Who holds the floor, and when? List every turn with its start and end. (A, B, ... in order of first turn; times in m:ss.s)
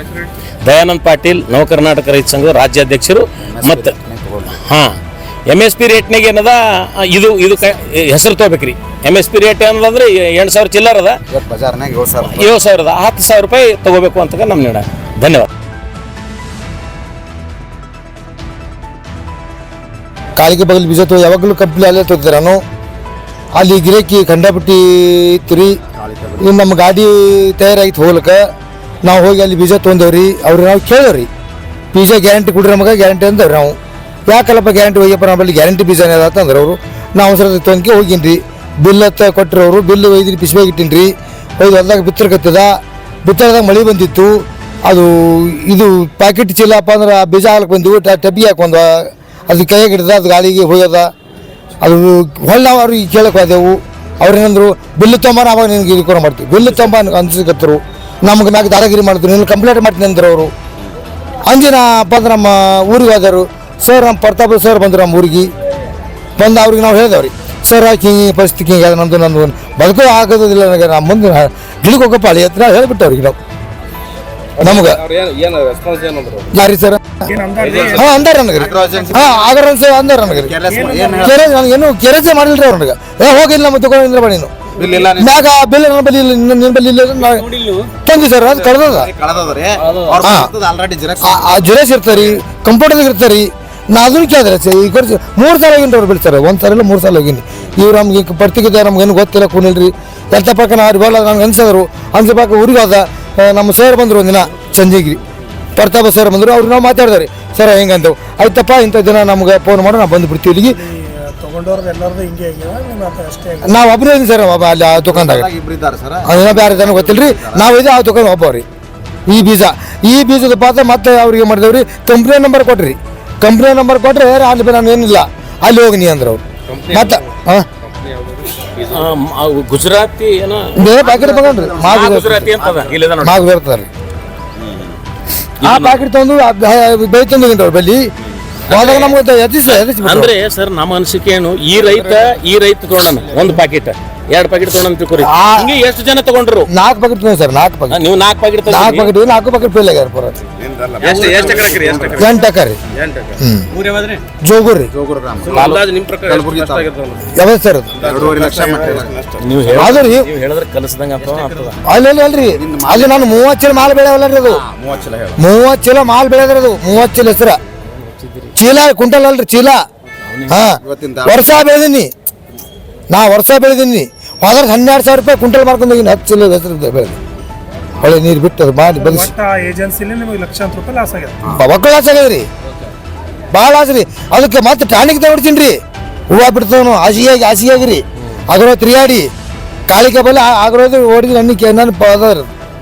0:00.6-0:03.9 A
0:03.5-0:04.6 B
0:04.6-0:05.0 A
0:05.5-0:11.2 A
0:11.3-0:12.6 B
0:12.2-0:15.5 A
0:20.4-0:22.6 C
0:23.6-0:25.8 C
0:25.9-0:26.5 B
0:26.4-0:28.5 C
0:29.0-0:31.3 C
0:31.9-0:33.8 C
0:34.3-0:51.1 C
0:51.8-1:00.5 C
1:01.5-1:05.5 C
1:06.4-1:13.4 C
1:14.6-1:15.0 C
1:14.6-1:16.5 D
1:16.5-1:17.3 C
1:17.3-1:18.2 E
1:17.6-1:18.1 D
1:17.9-1:20.6 C
1:18.5-1:19.5 B
1:20.3-1:21.4 B
1:20.7-1:21.4 E
1:21.2-1:24.5 C
1:24.8-1:25.5 B
1:25.1-1:27.5 C
1:28.0-1:29.1 C
1:28.5-1:31.7 B
1:29.8-1:30.1 D
1:30.2-1:30.5 C
1:31.2-1:45.2 C
1:45.8-1:50.8 C
1:50.8-1:53.8 E
1:53.6-1:55.5 C
1:55.0-1:57.7 B
1:56.2-1:58.6 C
1:59.3-2:07.7 C
2:06.7-2:07.2 D
2:07.8-2:09.1 D
2:08.9-2:11.0 A
2:10.8-2:12.5 C
2:11.0-2:12.1 B
2:11.8-2:13.4 A
2:12.6-2:12.9 B
2:13.2-2:13.9 C
2:15.6-2:16.0 A
2:15.6-2:18.1 C
2:18.7-2:20.3 C
2:18.7-2:26.7 A
2:25.2-2:25.7 C
2:26.7-2:28.0 C
2:27.9-2:29.1 A
2:28.7-2:30.4 C
2:30.6-2:32.2 B
2:31.0-2:32.4 D
2:31.0-2:31.4 A
2:32.2-2:32.8 C
2:33.0-2:34.2 D
2:33.4-2:33.7 C
2:34.4-2:34.9 C
2:34.9-2:36.9 B
2:35.5-2:37.3 D
2:35.5-2:35.8 A
2:37.3-2:37.9 C
2:38.0-2:39.5 B
2:38.0-2:39.1 D
2:39.4-2:41.8 A
2:39.8-2:40.3 C
2:41.9-2:44.6 C
2:42.5-2:43.4 B
2:44.5-2:45.4 B
2:45.4-2:47.6 C
2:48.2-2:48.5 A
2:48.6-2:49.8 C
2:50.5-2:52.1 C
2:50.8-2:51.6 B
2:53.1-2:57.2 C
2:58.0-2:59.3 C
2:59.0-3:01.4 E
3:01.5-3:02.5 C
3:03.5-3:05.8 C
3:06.3-3:09.3 C
3:09.9-3:12.5 C